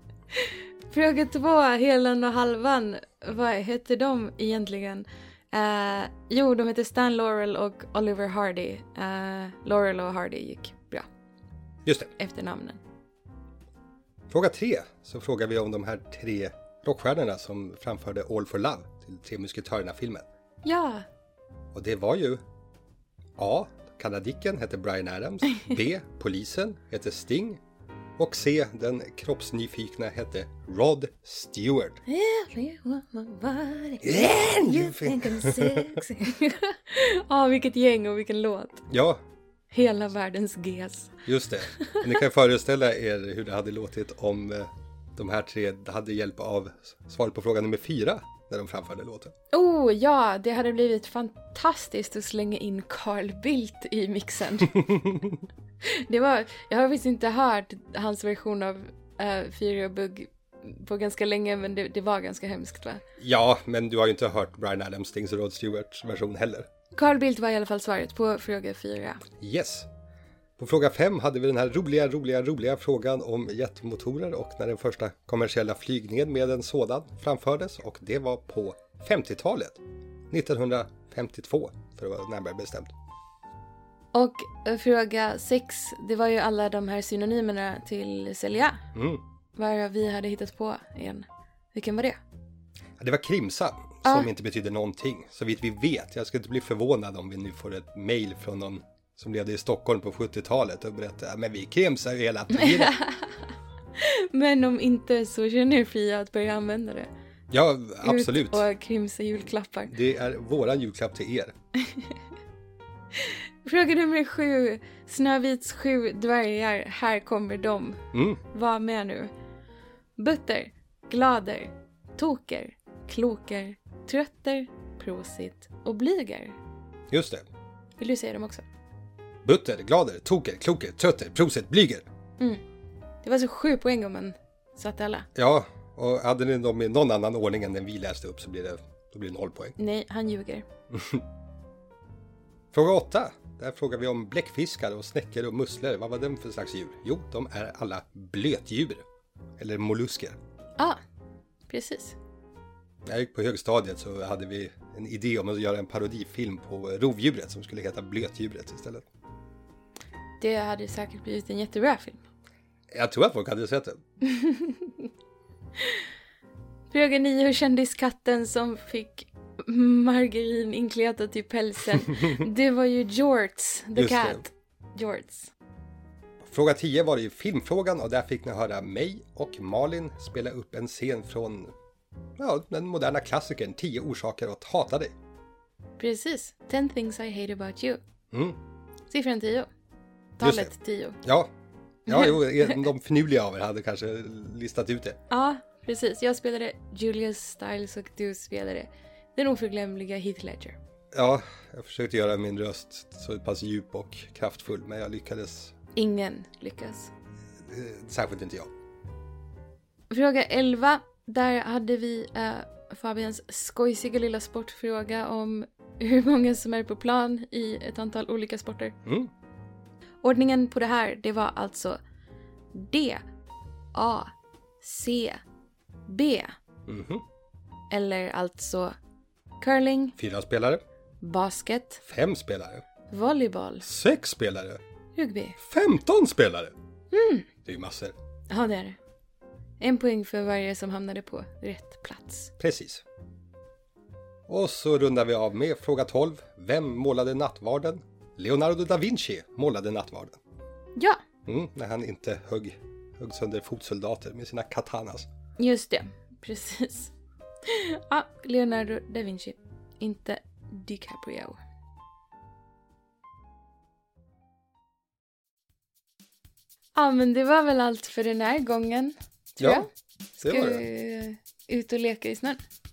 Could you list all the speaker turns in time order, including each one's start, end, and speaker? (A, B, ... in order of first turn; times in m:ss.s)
0:00.3-0:11.1 A
0:11.9-0:12.1 B
0:12.2-0:12.8 A
0:14.3-0:20.2 B
0:20.6-0:21.1 A
0:21.7-0:22.4 B
0:23.4-0:27.6 B
0:28.2-0:32.0 B
0:32.1-0:38.8 A
0:34.0-0:36.0 B
0:38.9-0:39.2 B
0:39.7-0:41.1 A
0:41.3-0:49.3 B
0:49.5-0:55.0 A
0:55.8-1:03.0 A
1:03.2-1:06.7 B
1:07.0-1:09.2 A
1:09.4-1:09.9 B
1:10.6-1:22.9 B
1:24.1-1:28.9 A
1:28.9-1:29.2 B
1:29.6-1:32.2 A
1:33.0-1:43.0 B
1:42.5-1:43.3 A
1:44.0-1:47.1 A
1:47.5-1:48.6 B
1:48.0-1:49.9 A
1:49.9-1:51.5 B
1:51.8-1:52.1 A
1:53.2-1:59.3 A
1:58.1-1:58.4 B
2:00.2-2:06.6 A
2:07.1-2:07.5 B
2:08.0-2:08.6 A
2:09.4-2:12.1 B
2:13.2-2:15.3 A
2:15.4-2:19.8 B
2:19.8-2:20.7 A
2:20.9-2:21.2 B
2:22.7-2:29.0 B
2:29.6-2:30.4 B
2:31.7-2:32.2 A
2:33.1-2:39.1 B
2:40.4-2:42.2 A
2:42.9-2:44.0 B
2:44.2-2:45.1 A
2:46.9-2:55.5 A
2:54.0-2:54.4 B
2:56.4-3:01.7 B
3:02.4-3:05.1 B
3:06.0-3:08.0 A
3:08.3-3:08.6 B
3:09.1-3:09.7 A
3:10.4-3:11.2 A
3:10.4-3:10.7 B
3:11.2-3:11.5 B
3:12.1-3:15.2 B
3:12.1-3:12.8 A
3:15.3-3:20.8 A
3:21.1-3:25.7 B
3:26.0-3:27.1 A
3:27.7-3:28.7 B
3:30.1-3:39.0 A
3:39.1-3:39.3 B
3:40.2-3:42.0 A
3:42.7-3:43.2 A
3:43.9-3:45.4 A
3:46.1-3:46.5 A
3:46.9-3:47.2 B
3:47.9-3:48.9 A
3:49.6-3:50.2 A
3:50.2-3:50.8 B
3:51.2-3:52.0 A
3:52.0-3:52.8 B
3:53.1-3:53.9 A
3:53.8-3:54.8 B
3:55.2-3:55.6 A
3:55.6-3:56.7 B
3:57.1-3:57.5 A
3:57.6-3:58.2 B
3:58.5-3:59.0 A
3:59.8-4:02.5 A
4:02.6-4:03.0 B
4:04.5-4:10.4 B
4:11.0-4:11.2 A
4:11.5-4:15.3 B
4:15.6-4:17.1 A
4:17.6-4:21.6 A
4:27.0-4:32.6 A
4:29.6-4:29.8 B
4:30.4-4:30.8 B